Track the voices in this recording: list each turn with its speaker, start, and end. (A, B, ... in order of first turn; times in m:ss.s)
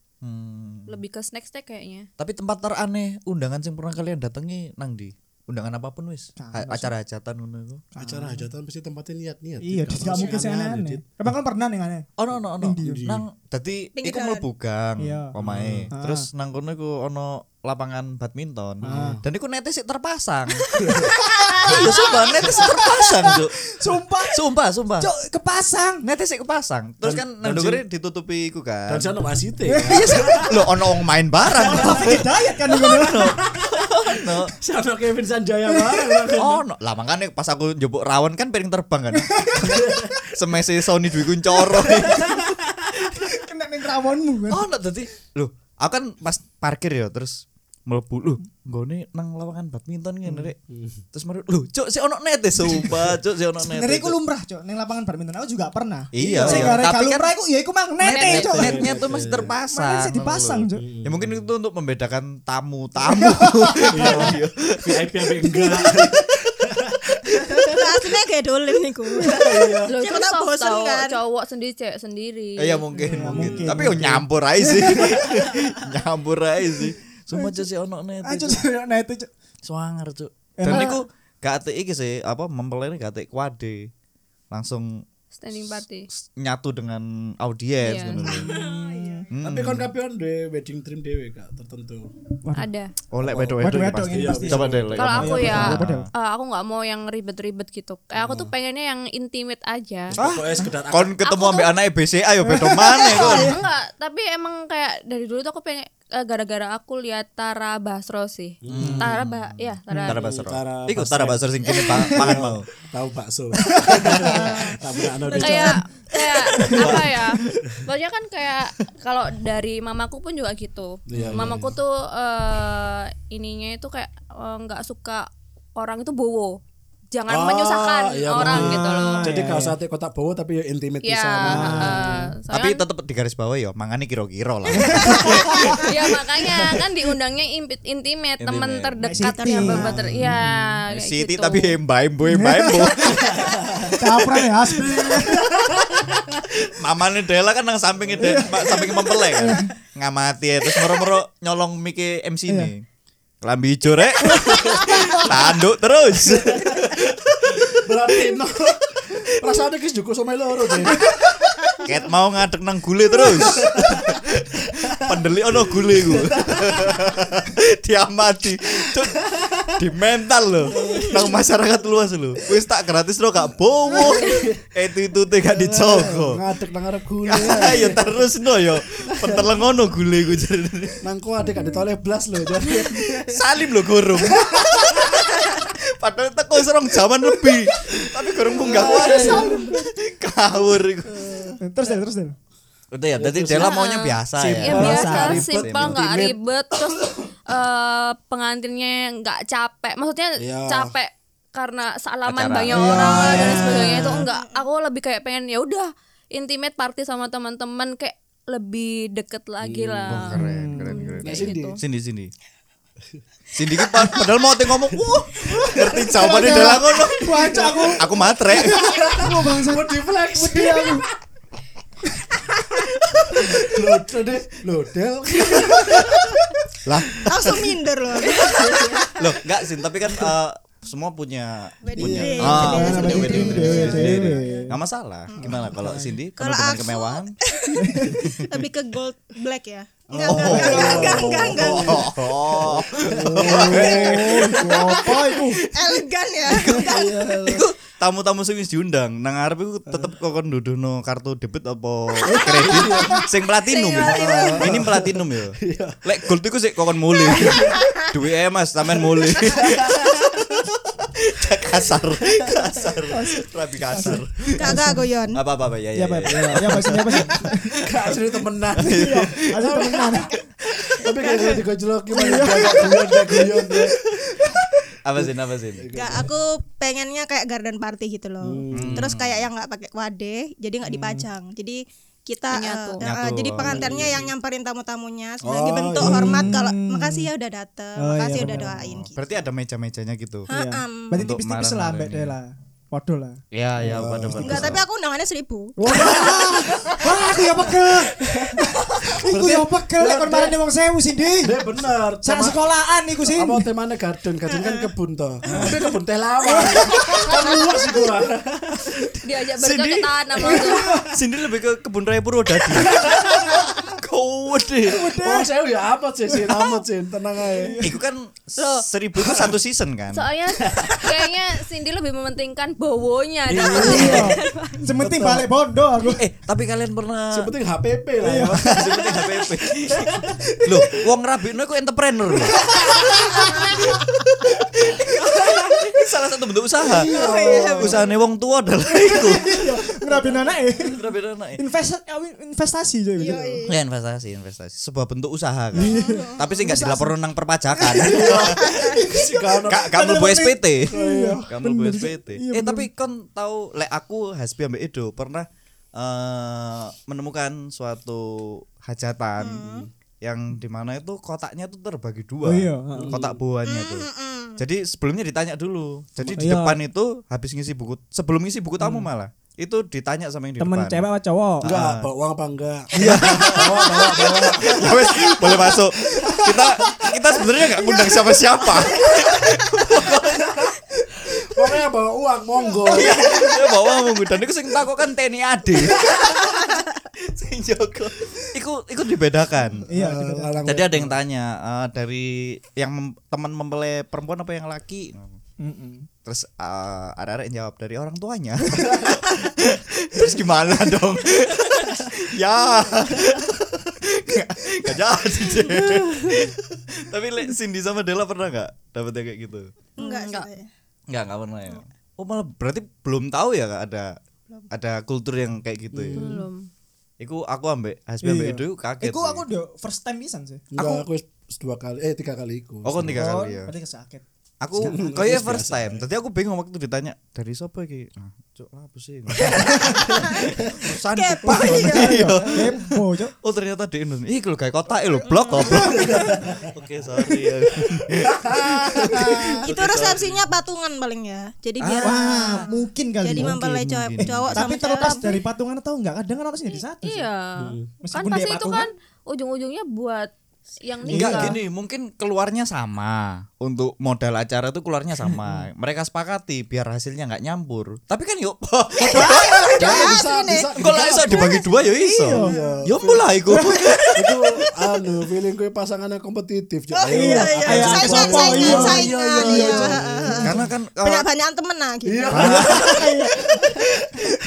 0:00.2-0:01.0 A
0:00.9-0:02.1 B
0:02.2-0:07.8 A
0:06.4-0:06.9 C
0:08.0-0:08.5 C
0:08.0-0:11.0 D
0:09.6-0:13.1 C
0:12.2-0:20.7 A
0:12.8-0:13.2 D
0:14.0-0:14.5 E
0:15.0-0:15.3 C
0:15.4-0:15.9 D
0:15.9-0:16.3 C
0:18.8-0:19.2 D
0:18.9-0:19.2 C
0:20.8-0:21.2 D
0:20.9-0:24.4 C
0:21.6-0:23.6 A
0:24.3-0:25.1 A
0:25.0-0:26.0 C
0:26.0-0:29.1 A
0:27.0-0:27.8 D
0:28.9-0:30.7 D
0:29.6-0:30.5 C
0:30.5-0:32.2 A
0:31.5-0:33.4 C
0:31.9-0:32.1 D
0:32.7-0:36.6 D
0:33.0-0:34.5 A
0:35.7-0:36.3 C
0:36.4-0:42.4 A
0:39.1-0:39.9 C
0:39.6-0:40.3 D
0:41.8-0:42.9 D
0:41.9-0:42.4 C
0:43.1-0:44.7 C
0:44.5-0:50.6 A
0:50.7-0:51.0 D
0:51.1-0:54.2 A
0:53.6-0:59.0 C
0:56.1-0:57.3 A
0:56.4-0:56.8 D
0:58.1-0:58.5 B
0:58.2-1:05.1 A
0:58.2-0:59.5 D
0:59.7-1:00.8 C
1:00.8-1:01.5 D
1:03.0-1:04.3 C
1:03.9-1:07.9 D
1:05.6-1:06.2 C
1:07.7-1:11.2 E
1:09.2-1:09.5 C
1:09.3-1:10.0 D
1:09.9-1:12.9 B
1:12.6-1:18.6 A
1:13.0-1:15.2 C
1:13.2-1:14.2 D
1:17.3-1:17.6 C
1:18.2-1:19.3 C
1:19.6-1:23.9 A
1:20.6-1:21.0 C
1:24.5-1:25.0 A
1:25.4-1:26.1 B
1:26.1-1:28.5 A
1:27.8-1:28.3 B
1:28.2-1:29.3 C
1:28.4-1:29.4 E
1:29.3-1:29.9 A
1:29.4-1:32.1 D
1:32.6-1:32.9 B
1:33.1-1:36.1 A
1:33.2-1:35.8 D
1:33.6-1:36.1 C
1:35.0-1:40.2 B
1:38.2-1:38.5 D
1:40.1-1:41.2 D
1:40.2-1:43.6 A
1:41.2-1:41.7 B
1:42.4-1:43.6 C
1:43.0-1:50.2 B
1:48.6-1:49.1 D
1:48.7-1:52.6 A
1:50.1-1:55.8 D
1:51.8-1:52.2 C
1:53.7-1:54.7 A
1:53.8-1:54.7 C
1:55.3-1:55.8 C
1:55.4-2:06.6 B
1:56.6-1:57.8 A
2:01.1-2:01.7 D
2:01.2-2:01.6 A
2:07.1-2:09.4 B
2:07.3-2:12.2 D
2:08.3-2:09.8 C
2:11.0-2:12.8 B
2:11.4-2:12.3 C
2:12.5-2:16.0 A
2:14.8-2:15.9 C
2:15.8-2:21.8 B
2:18.4-2:19.0 A
2:19.0-2:20.8 C
2:19.3-2:20.0 E
2:20.1-2:20.4 D
2:20.9-2:23.8 A
2:22.3-2:25.8 C
2:23.2-2:26.4 D
2:26.7-2:32.9 A
2:28.1-2:28.5 D
2:28.2-2:29.7 C
2:33.4-2:37.6 A
2:34.4-2:35.2 C
2:34.5-2:35.3 D
2:36.2-2:41.4 D
2:41.0-2:41.8 C
2:41.8-2:56.4 A
2:43.2-2:44.2 D
2:44.8-2:47.1 D
2:48.8-2:49.8 D
2:50.7-2:51.4 D
2:50.8-2:51.2 C
2:53.9-2:54.6 D
2:55.5-2:58.1 D
2:57.3-3:01.0 A
2:59.1-2:59.6 D
3:01.0-3:03.4 D
3:02.7-3:11.4 A
3:04.3-3:05.2 D
3:07.8-3:09.7 D
3:08.9-3:09.7 C
3:08.9-3:09.3 E
3:11.1-3:11.6 D
3:11.6-3:12.4 C
3:12.9-3:16.2 A
3:13.2-3:13.7 D
3:13.6-3:31.8 B
3:14.4-3:16.3 D
3:14.7-3:15.4 C
3:20.4-3:20.9 D
3:22.2-3:23.4 A
3:22.7-3:24.3 C
3:23.0-3:24.6 E
3:29.6-3:30.3 D
3:30.1-3:32.3 A
3:30.3-3:31.2 C
3:31.2-3:31.8 D
3:33.5-3:39.2 A
3:35.0-3:36.7 D
3:36.0-3:41.1 C
3:37.4-3:41.2 D
3:43.3-3:46.4 D
3:45.6-3:46.3 A
3:46.8-3:47.8 A
3:47.3-3:49.2 E
3:48.7-3:49.1 D
3:49.2-3:57.4 A
3:51.8-3:54.6 E
3:52.0-3:54.8 C
3:52.0-3:54.4 D
3:55.3-3:55.7 E
3:55.6-3:56.1 C
3:56.4-4:02.3 E
3:57.8-3:58.3 C
4:00.1-4:06.0 D
4:00.2-4:04.3 A
4:00.3-4:01.3 C
4:03.4-4:05.6 C
4:03.6-4:04.1 E
4:05.7-4:07.1 E
4:06.5-4:24.8 A
4:06.8-4:07.6 D
4:12.2-4:13.3 D
4:13.1-4:14.9 E
4:13.9-4:16.0 D
4:17.3-4:17.8 D
4:17.3-4:17.6 E
4:19.0-4:20.6 D
4:22.2-4:22.7 D
4:23.1-4:25.1 C
4:24.6-4:25.4 E
4:25.3-4:28.2 A
4:25.9-4:27.8 C
4:27.8-4:30.4 D
4:28.8-4:30.4 A
4:28.8-4:30.4 C
4:30.9-4:34.0 D
4:31.2-4:31.6 E
4:32.1-4:32.9 C
4:32.4-4:33.9 A
4:34.3-4:34.7 C
4:35.0-4:35.9 A
4:35.2-4:36.3 D
4:35.9-4:49.1 E
4:38.4-4:39.1 D
4:38.8-4:39.4 A
4:40.9-4:41.3 C
4:42.5-4:43.0 B
4:43.0-4:44.1 A
4:43.6-4:44.3 D
4:45.4-4:46.5 D
4:46.0-4:47.3 C
4:48.0-4:48.9 C
4:48.4-4:50.5 A
4:50.5-4:51.2 E
4:50.5-4:54.0 C
4:51.1-4:52.4 A
4:53.5-4:54.8 A
4:53.8-4:54.8 D
4:54.4-4:55.8 E
4:55.8-5:01.6 C
4:55.9-4:58.6 D
4:59.2-5:00.6 D
5:01.4-5:02.7 D
5:02.2-5:03.7 C
5:03.2-5:08.8 D
5:05.5-5:05.9 C
5:06.5-5:07.5 C
5:08.9-5:15.0 A
5:09.2-5:10.9 B
5:10.5-5:11.1 C
5:12.8-5:13.6 D
5:14.9-5:15.5 C
5:15.2-5:17.8 D
5:17.5-5:17.9 C
5:17.8-5:20.3 A
5:18.6-5:18.9 B
5:19.2-5:19.5 D
5:20.1-5:24.8 B
5:20.6-5:21.1 D
5:23.5-5:25.5 D
5:23.7-5:26.2 C
5:26.2-5:27.5 A
5:27.3-5:29.2 D
5:28.2-5:29.2 C
5:28.6-5:33.5 A
5:29.7-5:30.7 D
5:32.5-5:33.5 D
5:34.6-5:37.1 A
5:37.0-5:38.0 C
5:37.0-5:37.7 D
5:37.1-5:38.2 E
5:37.8-5:41.6 A
5:38.9-5:41.0 C
5:41.5-5:43.7 C
5:43.2-5:43.8 E
5:43.7-5:49.0 A
5:45.8-5:47.2 C
5:45.8-5:46.5 E
5:47.8-5:52.9 C
5:48.1-5:50.0 D
5:48.6-5:48.9 E
5:49.7-5:50.9 A
5:50.9-5:51.5 D
5:51.5-6:11.0 A
5:59.4-5:59.9 E
6:02.4-6:03.3 C
6:02.9-6:03.4 D
6:03.6-6:04.6 E
6:06.2-6:06.6 D
6:06.4-6:06.8 C
6:08.8-6:09.1 C
6:10.6-6:11.7 C
6:11.6-6:17.5 D
6:11.6-6:12.1 A
6:13.0-6:20.7 A
6:13.0-6:13.9 C
6:14.8-6:16.6 C
6:18.9-6:23.4 D
6:22.9-6:29.8 A
6:29.9-6:31.2 D
6:29.9-6:30.6 C
6:30.6-6:35.4 A
6:35.6-6:36.1 C
6:36.2-6:49.7 A
6:50.0-6:50.7 E
6:50.0-6:50.5 B
6:51.1-6:54.1 A
6:54.7-6:56.2 A
6:55.9-6:56.4 D
6:56.1-6:56.7 B
6:57.2-6:59.4 A
6:58.2-7:01.0 C
7:00.7-7:03.2 D
7:02.8-7:03.7 A
7:03.1-7:04.2 C
7:04.6-7:20.4 A
7:04.8-7:05.3 C
7:04.8-7:06.0 D
7:10.2-7:10.4 E
7:11.1-7:12.5 E
7:11.4-7:13.3 C
7:15.2-7:16.3 E
7:15.6-7:16.7 D
7:18.2-7:19.7 D
7:19.6-7:25.3 E
7:21.8-7:22.7 A
7:22.0-7:24.0 C
7:23.3-7:25.1 A
7:24.5-7:27.3 C
7:27.0-7:30.3 B
7:27.6-7:27.9 D
7:28.0-7:28.9 C
7:30.8-7:31.6 B
7:31.1-7:31.6 C
7:31.1-7:40.2 A
7:39.0-7:41.6 E
7:39.1-7:39.5 C
7:39.2-7:41.6 D
7:40.8-7:44.4 A
7:41.2-7:42.6 C
7:42.3-7:43.3 D
7:42.3-7:42.8 E
7:43.5-7:44.0 C
7:44.2-7:50.6 D
7:46.9-7:52.7 E
7:47.1-7:50.6 C
7:48.6-7:48.9 A
7:50.4-7:51.3 A
7:52.0-7:54.0 D
7:52.3-7:53.0 A
7:52.7-7:53.7 C